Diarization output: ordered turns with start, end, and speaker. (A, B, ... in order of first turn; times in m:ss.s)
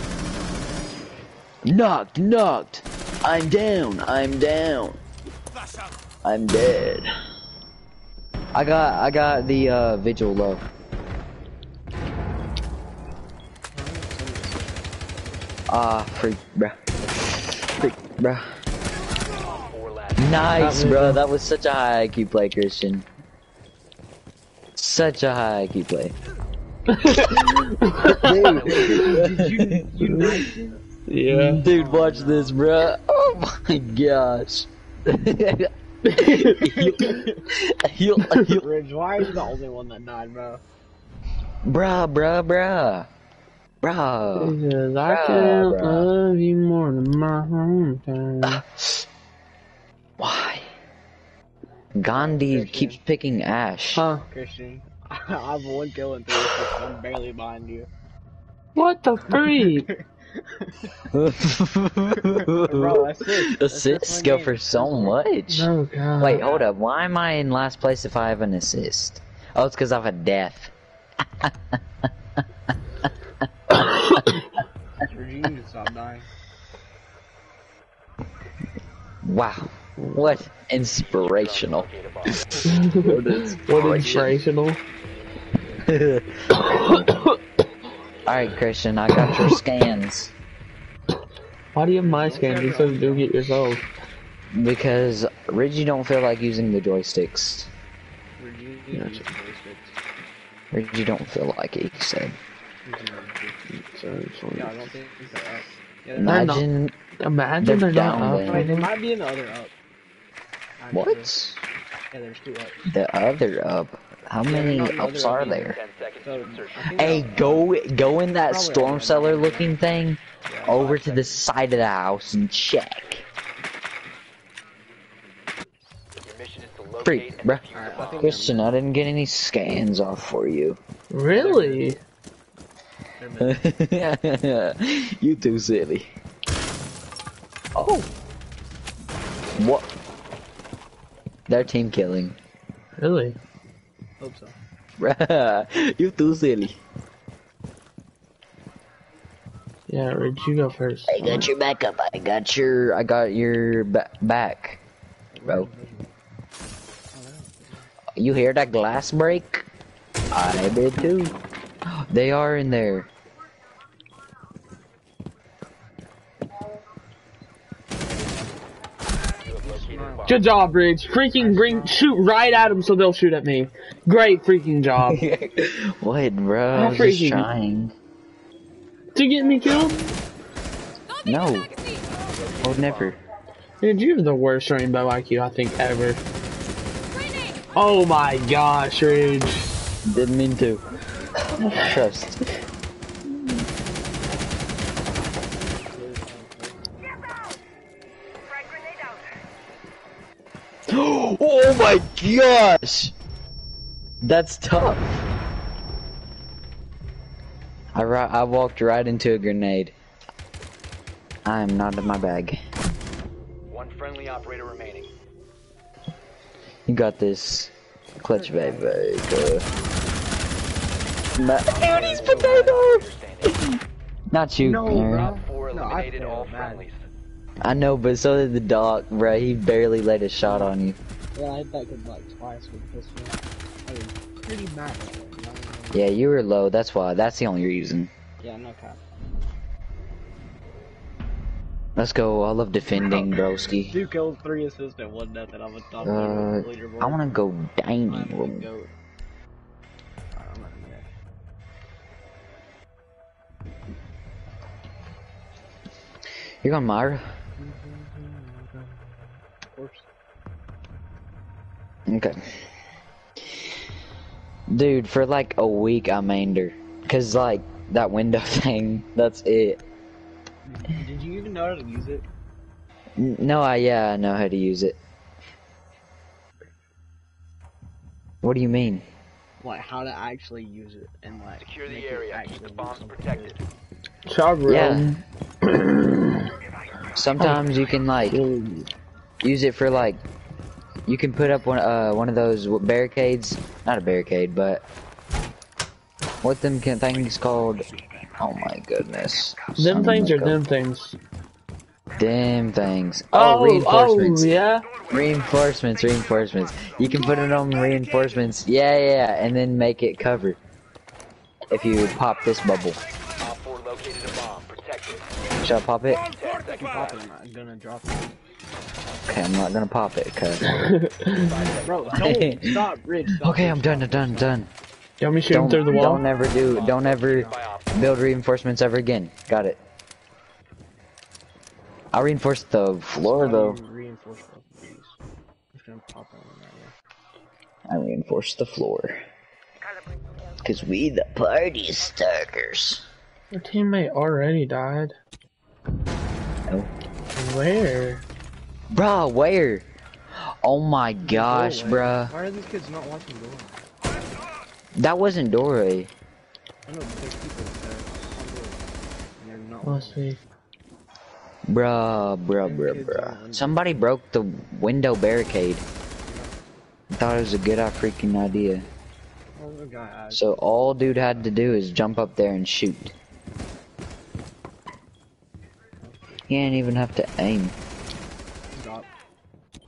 0:01.6-0:05.0 A
0:06.2-0:07.1 A
0:08.5-0:10.6 A
0:13.7-0:15.4 B
0:15.7-0:18.6 A
0:19.4-0:20.6 C
0:20.2-0:23.0 A
0:20.5-0:21.2 D
0:24.8-0:26.1 A
0:26.9-0:29.2 D
0:27.1-0:30.2 A
0:28.4-0:29.0 C
0:28.7-0:30.8 B
0:30.1-0:30.4 D
0:31.1-0:31.6 D
0:31.3-0:38.6 A
0:31.6-0:32.6 B
0:36.0-0:36.7 D
0:36.6-0:37.4 B
0:38.6-0:40.6 B
0:41.6-0:43.1 A
0:43.8-0:46.1 A
0:44.4-0:48.6 D
0:48.4-0:49.0 A
0:50.2-0:50.7 A
0:51.9-0:54.0 A
0:52.1-0:53.0 B
0:53.9-0:54.3 D
0:54.3-0:57.9 B
0:58.7-0:59.9 D
0:59.2-1:01.0 B
1:01.1-1:10.7 A
1:02.1-1:05.2 B
1:05.5-1:06.5 D
1:06.4-1:06.7 B
1:15.0-1:16.3 B
1:19.2-1:24.4 A
1:20.0-1:20.3 D
1:20.9-1:22.8 C
1:22.6-1:24.8 D
1:25.8-1:27.1 A
1:26.5-1:27.4 D
1:28.2-1:30.3 A
1:29.1-1:29.6 D
1:31.7-1:33.8 D
1:32.0-1:33.6 B
1:34.5-1:37.7 A
1:38.4-1:39.9 B
1:38.9-1:39.2 D
1:40.7-1:42.4 A
1:42.8-1:43.6 B
1:43.7-1:44.8 D
1:44.5-1:46.6 B
1:46.2-1:46.9 A
1:46.2-1:46.6 D
1:47.2-1:48.9 D
1:47.6-1:48.7 A
1:48.4-1:49.7 B
1:50.8-1:51.3 B
1:50.9-1:51.6 A
1:52.1-1:52.8 B
1:52.8-1:55.8 A
1:54.4-1:57.7 B
1:55.6-1:57.2 C
1:57.0-2:03.2 A
1:58.4-1:59.8 B
2:00.4-2:00.8 B
2:00.6-2:01.4 C
2:06.2-2:08.4 C
2:07.0-2:07.6 A
2:07.7-2:08.7 B
2:08.1-2:10.8 A
2:11.1-2:12.0 D
2:11.3-2:12.0 B
2:13.2-2:13.6 B
2:13.4-2:16.1 A
2:17.7-2:18.1 A
2:19.6-2:19.9 A
2:21.5-2:22.4 A
2:23.0-2:23.4 D
2:24.2-2:24.6 B
2:25.0-2:26.8 A
2:29.9-2:31.5 D
2:31.1-2:34.8 A
2:35.3-2:36.1 B
2:37.1-2:37.9 B
2:38.2-2:39.6 A
2:40.3-2:41.3 A
2:41.9-2:43.1 A
2:49.4-2:50.7 C
2:49.6-2:50.7 B
2:50.3-2:55.2 D
2:51.3-2:52.6 B
2:55.0-2:57.9 A
2:56.7-2:57.4 D
2:59.1-3:00.1 D
3:01.2-3:01.8 A
3:02.6-3:03.2 A
3:03.8-3:06.2 D
3:07.7-3:09.7 D
3:10.0-3:10.8 A
3:11.7-3:12.4 A
3:15.8-3:16.8 B
3:20.9-3:23.1 A
3:24.2-3:25.0 A
3:27.9-3:29.9 A
3:31.4-3:32.6 A
3:33.7-3:35.1 C
3:36.9-3:39.6 A
3:38.2-3:39.3 B
3:41.4-3:43.7 A
3:41.7-3:42.9 B
3:41.7-3:43.6 C
3:44.3-3:45.3 A
3:44.6-3:46.8 B
3:45.1-3:47.0 C
3:47.6-3:51.0 A
3:50.4-3:50.7 B
3:51.3-3:56.1 B
3:55.9-3:58.1 A
3:58.4-3:59.0 B
4:02.0-4:03.9 A
4:02.9-4:07.2 B
4:06.0-4:08.7 A
4:08.1-4:08.9 B
4:10.3-4:11.1 B
4:16.6-4:17.3 A
4:17.6-4:20.1 B
4:22.1-4:22.4 A
4:24.7-4:29.8 A
4:30.6-4:32.2 B
4:33.2-4:35.0 A
4:38.4-4:39.0 A
4:39.6-4:43.6 B
4:41.6-4:43.6 C
4:44.3-4:46.5 D
4:44.6-4:45.1 A
4:47.1-4:48.4 A
4:47.4-4:47.7 D
4:48.2-4:48.9 D
4:49.4-4:50.2 A
4:51.1-4:54.8 A
4:56.4-5:00.6 A
4:59.8-5:01.2 D
5:02.2-5:10.6 A
5:03.3-5:04.9 D
5:11.7-5:13.0 A
5:13.4-5:15.3 C
5:15.6-5:16.2 A
5:16.2-5:17.2 C
5:16.8-5:18.3 B
5:19.2-5:20.8 A
5:20.6-5:21.6 D
5:21.3-5:22.4 C
5:21.8-5:24.6 B
5:22.2-5:22.8 A
5:23.4-5:24.7 A
5:25.2-5:26.2 D
5:25.5-5:29.8 A
5:26.6-5:28.0 C
5:27.3-5:27.5 B
5:32.1-5:33.8 A
5:33.1-5:35.1 B
5:35.7-5:36.9 B
5:37.9-5:39.2 A
5:40.6-5:43.0 A
5:43.5-5:45.2 D
5:47.3-5:48.2 D
5:48.9-5:52.3 A
5:51.2-5:53.9 B
5:55.0-5:56.1 A
5:56.8-6:00.3 B
5:59.8-6:00.4 D
6:01.7-6:05.8 A
6:02.6-6:03.8 B
6:06.2-6:06.6 B
6:07.1-6:08.8 A
6:09.6-6:10.6 B
6:10.3-6:13.1 A
6:16.0-6:16.5 B
6:16.5-6:17.8 A
6:18.7-6:19.1 B